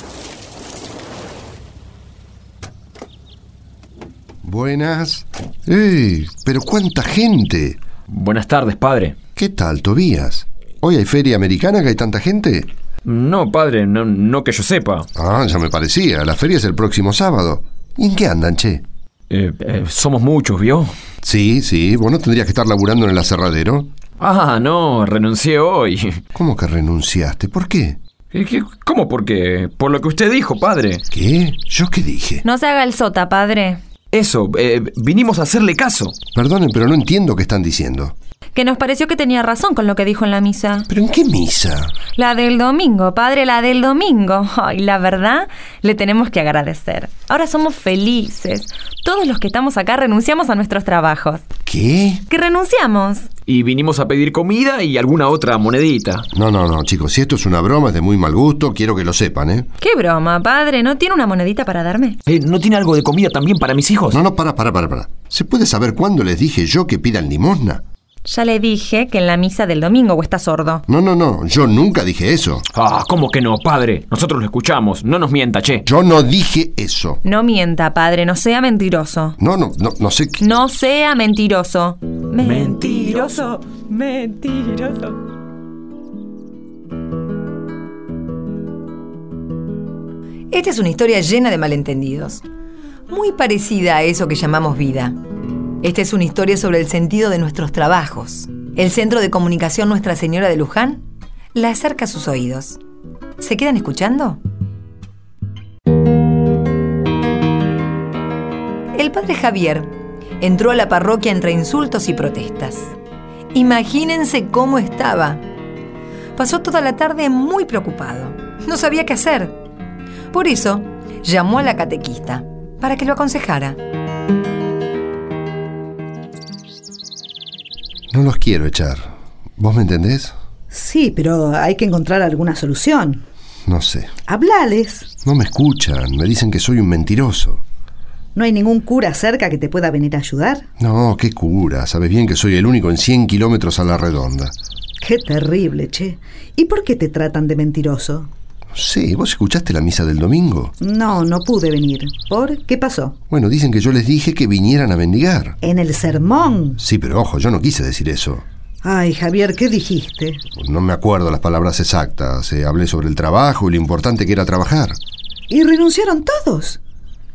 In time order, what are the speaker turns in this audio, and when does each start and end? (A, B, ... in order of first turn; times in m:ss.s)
0:04.4-0:07.8 A
0:08.1-0:09.2 B
0:09.4-0:12.7 A
0:13.0-0:15.1 B
0:15.2-0:18.8 A
0:19.3-0:20.9 B
0:21.2-0:23.9 A
0:24.2-0:26.2 B
0:26.3-0:28.0 A
0:28.3-0:31.0 B
0:31.1-0:32.4 A
0:32.4-0:33.8 C
0:34.1-0:36.2 B
0:36.3-0:38.1 A
0:38.5-0:40.9 C
0:40.9-0:41.9 A
0:42.2-0:51.4 C
0:51.7-0:52.2 A
0:52.3-0:53.3 C
0:53.5-0:56.3 B
0:56.3-0:59.7 A
0:59.8-1:02.2 C
1:02.3-1:04.2 B
1:04.1-1:07.8 A
1:08.2-1:10.8 C
1:10.9-1:12.6 A
1:12.7-1:15.8 B
1:15.9-1:17.2 A
1:17.2-1:19.4 C
1:19.4-1:20.4 A
1:20.4-1:25.2 C
1:22.4-1:23.3 B
1:30.5-1:32.4 D
1:33.1-1:35.2 D
1:35.8-1:42.8 D
1:43.4-1:44.4 D
1:48.9-1:53.0 D
1:53.5-1:55.4 D
1:56.4-1:59.6 D
2:00.3-2:03.8 D
2:08.1-2:10.4 A
2:10.7-2:13.2 E
2:13.7-2:14.1 A
2:14.3-2:15.1 E
2:15.2-2:17.6 A
2:18.4-2:20.6 E
2:20.8-2:24.5 A
2:25.0-2:28.3 E
2:28.7-2:30.7 A
2:30.8-2:33.2 E
2:33.3-2:35.6 A
2:35.6-2:36.8 E
2:36.8-2:38.4 A
2:38.8-2:40.4 E
2:40.6-2:45.0 A
2:45.5-2:46.8 E